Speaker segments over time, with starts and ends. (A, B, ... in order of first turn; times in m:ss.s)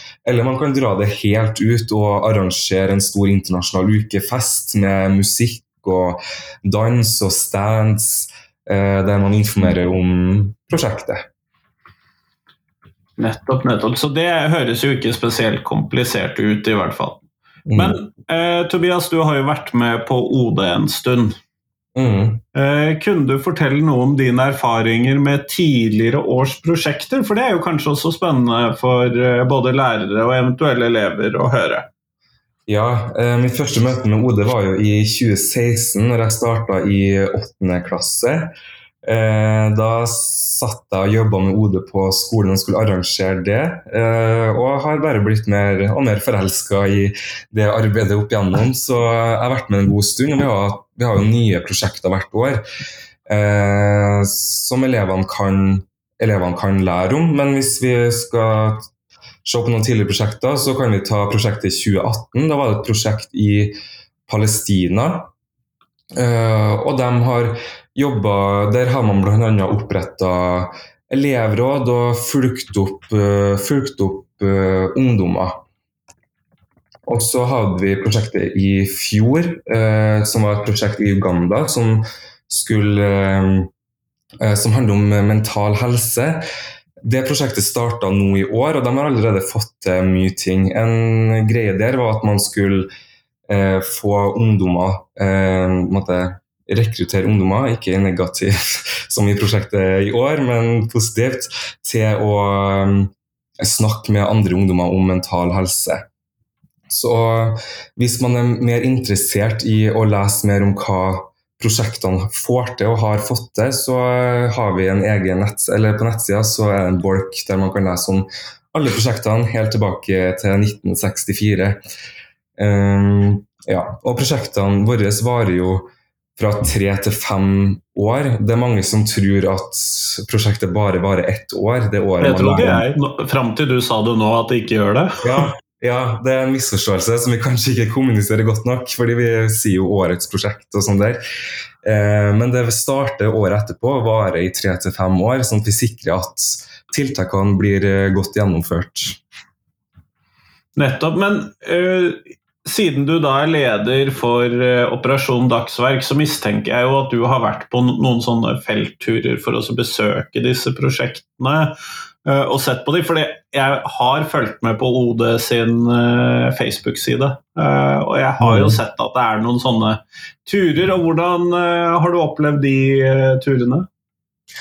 0:00.2-0:11.2 A
0:13.2-0:17.2 B
0:17.7-0:18.0 A
0:17.8-0:21.4 B
0:22.0-0:22.4 A
0:22.6-0:31.9 B
0:32.7-0:38.5 A
0:39.0-0:52.6 A
0:53.3-0:58.9 A
0:59.4-1:05.3 A
1:06.1-1:15.6 A
1:17.1-1:23.7 A
1:24.4-1:26.4 A
1:27.0-1:32.9 A
1:33.5-1:46.0 A
1:46.9-2:01.8 A
2:02.6-2:12.8 A
2:12.2-2:15.5 B
2:15.2-2:21.2 A
2:21.8-2:29.2 A
2:30.8-2:41.7 B
2:42.2-2:53.9 B
2:48.4-2:48.8 A